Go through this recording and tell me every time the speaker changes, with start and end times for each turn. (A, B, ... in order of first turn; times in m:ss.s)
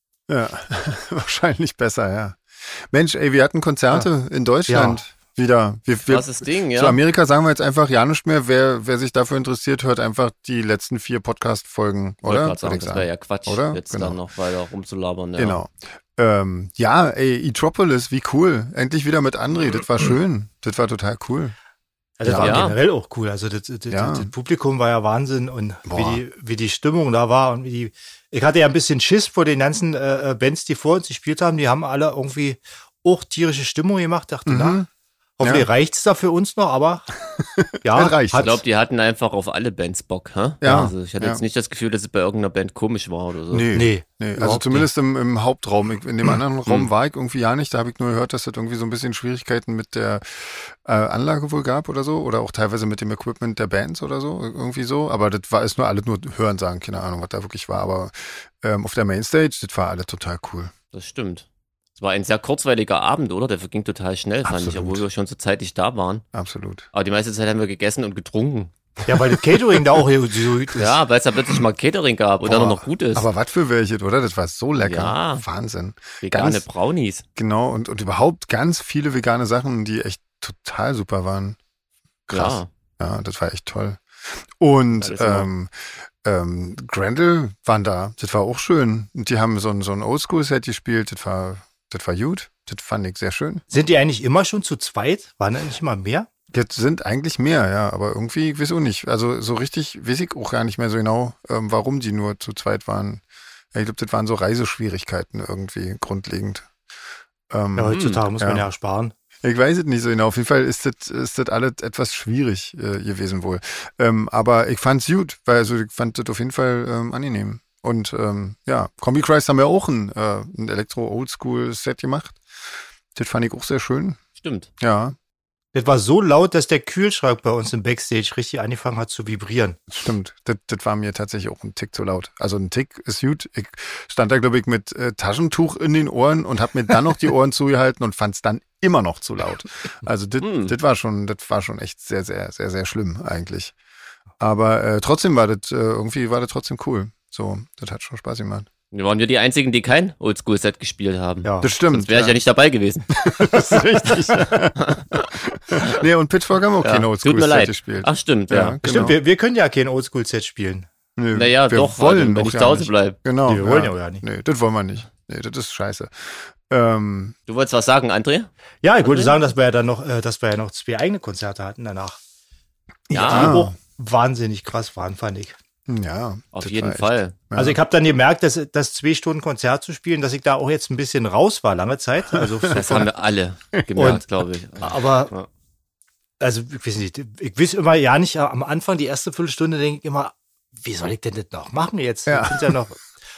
0:00.3-0:14.2 A
0:04.7-0:05.0 B
0:06.1-0:07.0 C
0:12.2-0:15.6 C
0:15.4-0:21.5 A
0:22.2-0:34.8 B
0:22.2-0:22.7 A
0:22.4-0:22.8 C
0:23.9-0:24.3 A
0:25.9-0:26.2 A
0:34.5-0:34.9 A
0:35.4-0:37.1 B
0:35.4-0:35.7 A
0:37.4-0:38.6 A
0:37.8-0:38.6 B
0:38.4-0:43.7 C
0:40.6-0:41.4 A
0:43.5-1:00.7 A
0:43.7-0:44.8 B
1:00.9-1:01.4 C
1:02.0-1:06.2 C
1:04.4-1:05.0 A
1:06.3-1:06.9 A
1:06.9-1:08.7 C
1:09.1-1:11.0 B
1:10.7-1:13.3 C
1:12.4-1:16.6 A
1:14.8-1:15.4 C
1:16.2-1:17.2 C
1:17.4-1:21.6 A
1:22.3-1:24.0 A
1:22.3-1:22.7 C
1:24.6-1:33.6 A
1:25.0-1:25.5 C
1:33.7-1:36.3 B
1:36.5-1:46.7 A
1:47.5-1:48.6 A
1:47.8-1:49.1 B
1:47.9-1:48.2 C
1:49.4-2:02.4 A
2:03.1-2:04.2 A
2:04.4-2:04.7 C
2:04.8-2:05.2 A
2:05.7-2:09.8 B
2:09.9-2:23.7 A
2:20.4-2:20.7 C
2:24.4-2:28.7 A
2:28.9-2:33.1 C
2:31.4-2:31.7 B
2:31.6-2:32.4 A
2:33.1-2:39.2 A
2:34.3-2:36.0 C
2:36.8-2:39.0 C
2:38.8-2:40.9 B
2:41.2-2:47.3 A
2:41.3-2:43.2 C
2:43.4-2:44.2 B
2:47.5-2:48.5 C
2:48.8-2:52.2 B
2:49.0-2:49.4 C
2:53.1-2:53.6 C
2:53.1-2:55.6 B
2:53.3-2:53.7 A
2:55.9-2:57.8 A
2:56.5-2:57.4 C
2:57.5-3:03.1 B
3:02.3-3:03.1 A
3:02.7-3:05.5 C
3:03.7-3:04.1 A
3:04.0-3:04.2 B
3:04.8-3:05.3 B
3:06.4-3:13.0 B
3:12.3-3:12.7 A